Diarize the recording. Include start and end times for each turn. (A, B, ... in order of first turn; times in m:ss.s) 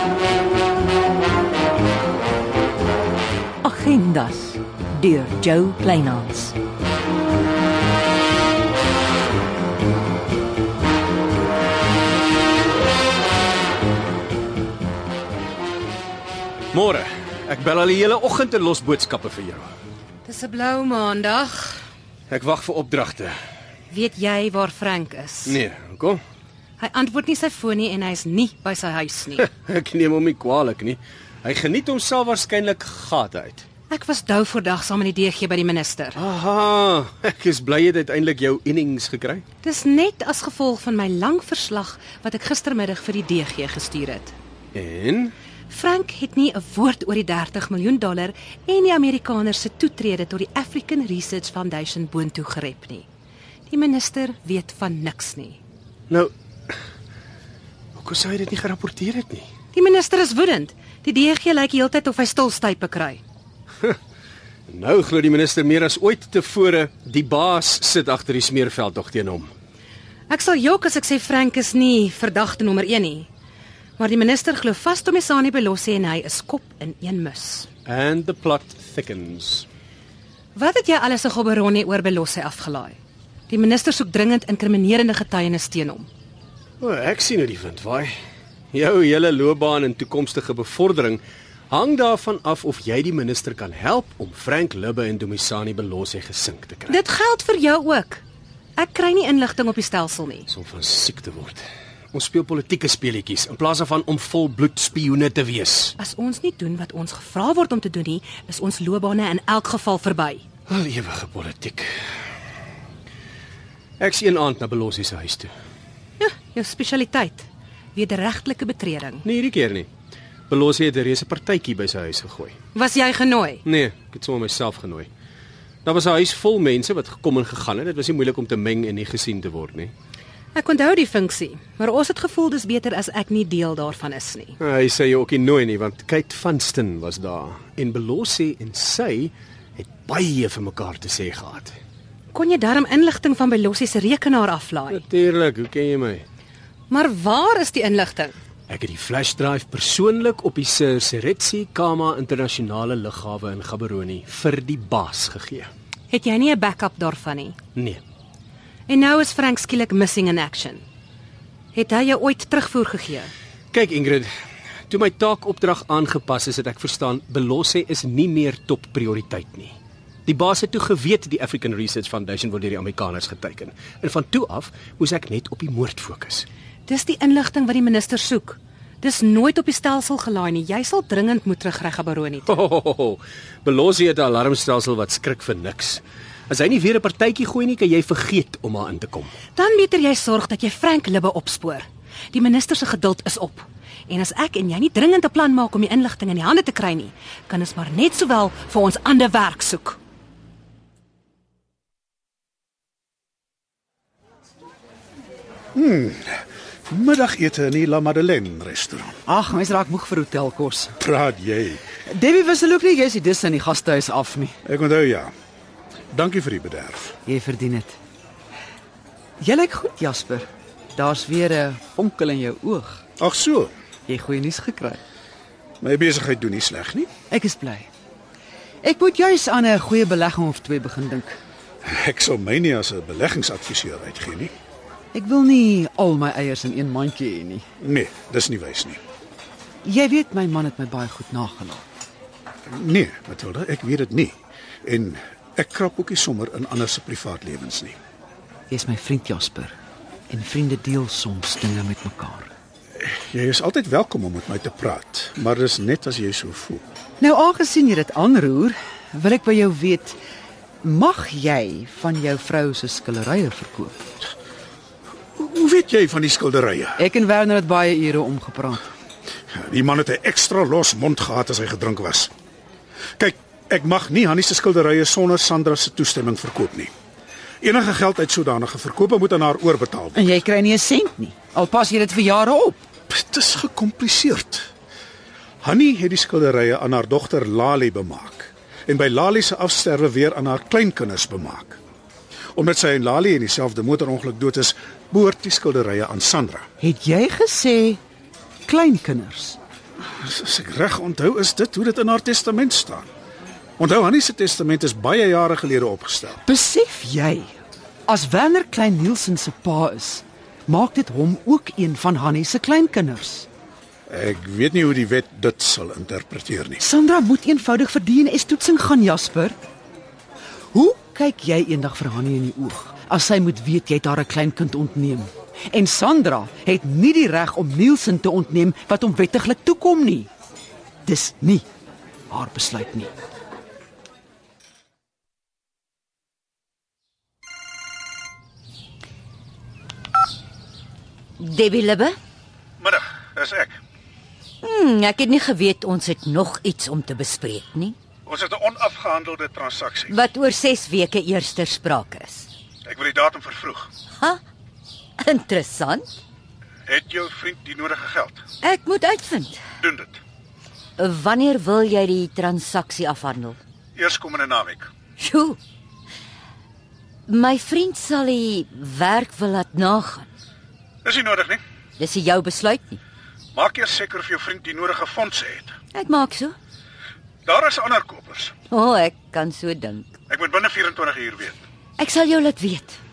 0:03.6-0:06.6 A
0:16.7-0:19.7 B
0:20.2-0:21.8 C
0:22.3-0:23.4 B
0:23.9-0:25.6 C
0:25.4-0:26.2 B
0:26.8-0:29.5 C
0:29.4-0:33.7 B
0:33.9-0:36.2 C
0:36.2-0:39.4 B
0:39.6-0:44.3 C
0:44.7-0:45.3 B
0:45.7-0:53.1 C
0:53.7-0:55.6 C
0:58.0-0:59.5 B
0:59.7-1:03.2 C
1:04.7-1:09.5 B
1:10.3-1:13.3 C
1:14.0-1:17.7 C
1:17.9-1:19.7 B
1:20.6-1:23.0 C
1:23.5-1:26.1 C
1:26.8-1:28.1 B
1:28.7-1:37.0 B
1:36.9-1:38.2 C
1:38.8-1:40.5 C
1:40.5-1:46.0 B
1:46.0-1:50.4 C
1:50.7-1:51.9 B
1:54.0-1:55.5 B
1:56.2-1:59.2 C
1:59.2-1:59.9 B
2:00.5-2:02.6 B
2:02.7-2:03.6 C
2:03.6-2:05.1 B
2:05.8-2:09.9 B
2:10.6-2:14.6 C
2:14.6-2:21.8 B
2:22.3-2:25.0 C
2:24.9-2:26.2 B
2:26.9-2:28.4 C
2:28.7-2:35.7 B
2:36.1-2:37.6 C
2:37.8-2:38.0 B
2:38.9-2:40.8 C
2:41.7-2:43.3 C
2:43.7-2:44.3 B
2:44.9-2:49.8 B
2:50.3-2:56.5 B
2:56.9-3:02.5 C
3:02.5-3:09.3 B
3:09.6-3:20.0 C
3:25.8-3:29.2 D
3:29.3-3:30.9 E
3:31.0-3:31.8 D
3:32.1-3:34.6 E
3:34.7-3:35.3 D
3:36.1-3:37.2 D
3:37.2-3:38.0 E
3:39.4-3:43.0 E
3:43.2-3:43.7 D
3:44.1-3:45.0 E
3:45.8-3:47.1 D
3:47.3-3:47.9 E
3:48.8-3:51.4 E
3:51.8-3:54.5 D
3:55.1-3:57.6 E
3:57.8-3:59.0 D
3:59.8-4:01.8 E
4:02.7-4:08.0 D
4:08.7-4:09.8 E
4:10.3-4:12.5 E
4:13.0-4:16.8 D
4:17.2-4:20.2 E
4:20.8-4:24.1 E
4:25.4-4:27.0 D
4:27.0-4:28.8 E
4:29.5-4:32.3 D
4:33.2-4:36.9 D
4:37.6-4:40.4 D
4:40.1-4:42.8 E
4:43.1-4:44.7 D
4:45.6-4:51.8 D
4:52.6-4:56.6 D
4:56.8-4:58.0 E
4:58.7-4:59.6 E
5:00.2-5:03.1 D
5:03.8-5:06.4 D
5:06.4-5:07.5 E
5:08.1-5:13.5 E
5:14.1-5:16.8 D
5:16.8-5:19.6 E
5:20.7-5:30.3 E
5:31.1-5:31.6 E
5:32.3-5:33.1 E
5:41.4-5:42.1 F
5:42.8-5:43.8 D
5:44.6-5:48.0 F
5:48.3-5:50.1 D
5:50.1-5:52.5 F
5:52.9-5:53.9 D
5:55.2-5:56.1 F
5:56.9-5:58.4 D
5:58.6-5:59.6 F
5:59.8-6:00.2 D
6:01.0-6:03.6 F
6:04.0-6:04.9 D
6:05.2-6:05.6 F
6:07.3-6:10.3 F
6:11.0-6:11.6 D
6:12.0-6:13.0 F
6:13.6-6:15.7 D
6:15.9-6:16.6 F
6:17.5-6:18.6 D
6:18.7-6:20.2 F
6:20.3-6:21.6 D
6:22.0-6:23.0 F